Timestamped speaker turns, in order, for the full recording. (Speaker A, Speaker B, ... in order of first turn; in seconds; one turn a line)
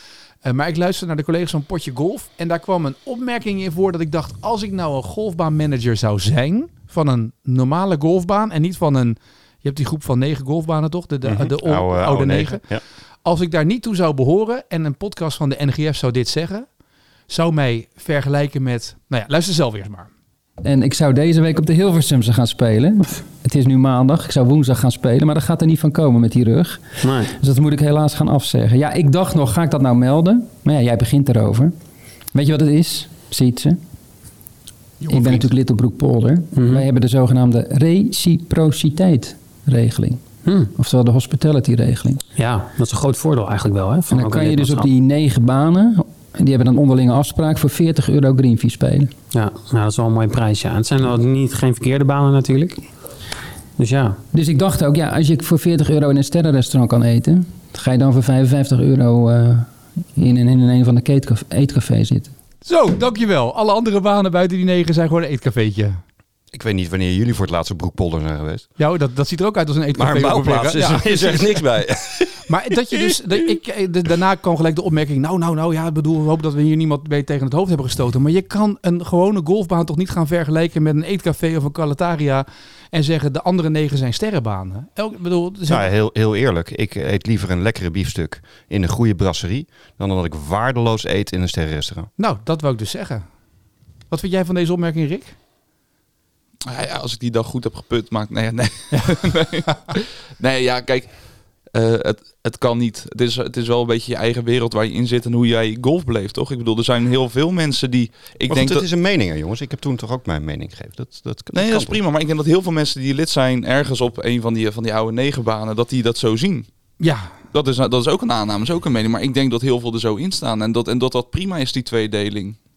Speaker A: 0.4-12.6
Speaker B: 11.2-12.8
Speaker A: 13.2-16.7
Speaker A: 17.3-20.1
Speaker C: 20.6-31.7
Speaker D: 27.0-27.3
Speaker C: 32.3-33.8
Speaker A: 35.0-35.5
Speaker C: 35.1-42.2
Speaker D: 36.5-36.9
Speaker D: 40.5-40.7
Speaker D: 42.4-44.9
Speaker C: 44.1-49.1
Speaker D: 49.3-52.9
Speaker D: 53.8-54.2
Speaker C: 54.3-62.3
Speaker A: 62.6-66.0
Speaker B: 66.5-68.7
Speaker A: 68.8-71.6
Speaker B: 70.0-73.5
Speaker A: 72.4-85.9
Speaker B: 85.7-92.1
Speaker A: 92.2-93.3
Speaker A: 94.1-95.4
Speaker E: 96.7-108.9
Speaker B: 108.5-112.0
Speaker E: 111.5-116.7
Speaker A: 117.0-117.3
Speaker E: 117.5-122.6